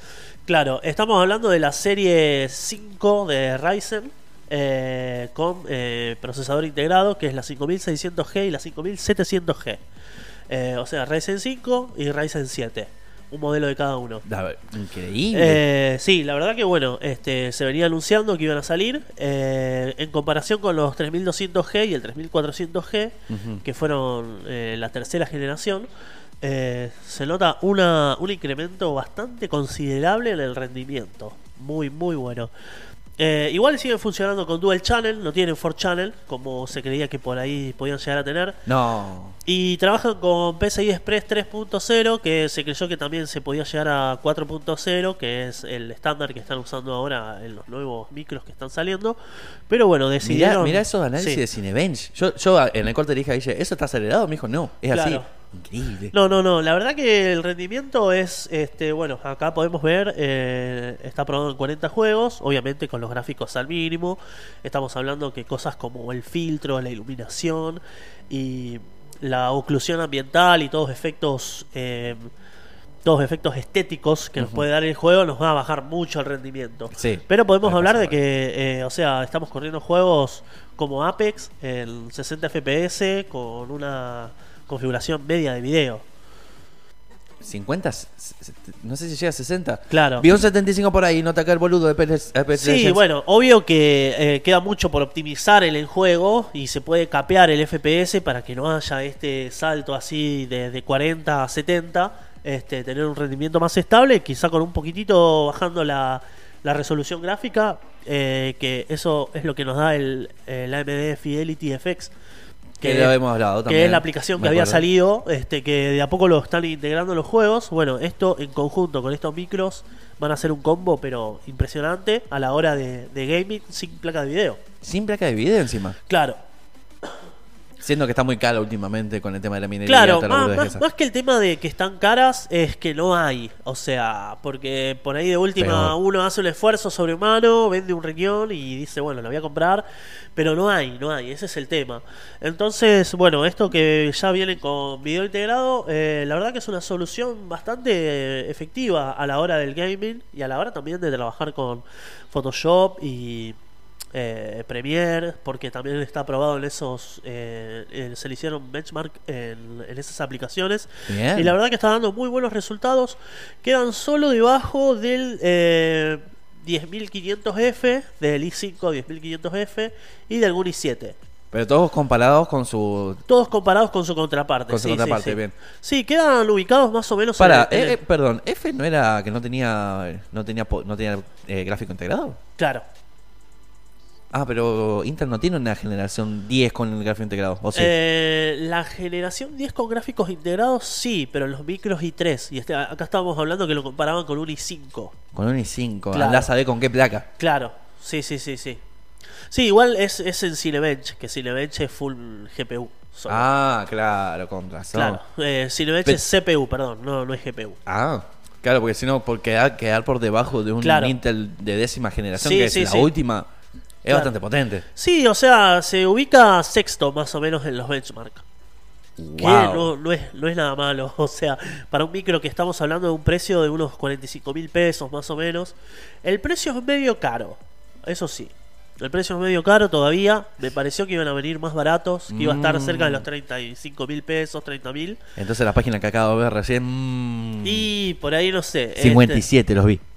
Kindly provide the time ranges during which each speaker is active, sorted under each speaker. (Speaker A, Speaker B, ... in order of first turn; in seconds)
Speaker A: 0.5-9.8, 10.5-14.3, 15.3-25.9, 26.4-32.5, 33.2-38.7, 39.5-49.2, 49.7-51.4, 54.9-55.3, 56.1-72.3, 73.0-86.0, 89.9-90.3, 92.5-112.1, 112.8-124.6, 126.1-126.4, 129.8-153.6, 154.1-171.2, 173.3-178.0, 182.6-182.8, 187.7-195.2, 196.1-196.5, 197.4-198.8, 199.5-203.5, 204.9-207.8, 210.8-211.2, 212.4-213.1, 214.9-218.4, 219.4-235.2, 237.6-239.5
Speaker B: 14.3-15.6, 23.3-23.6, 38.7-39.4, 50.2-56.1, 74.4-74.7, 76.9-78.2, 87.4-93.0, 112.8-114.9, 124.8-126.0, 127.8-130.8, 135.6-136.0, 161.1-161.6, 171.5-173.2, 174.7-175.6, 177.4-182.4, 184.3-187.9, 195.3-197.3, 203.3-205.2, 207.9-213.5, 214.0-214.8, 219.2-219.9, 232.3-233.3, 235.4-237.9, 239.0-240.0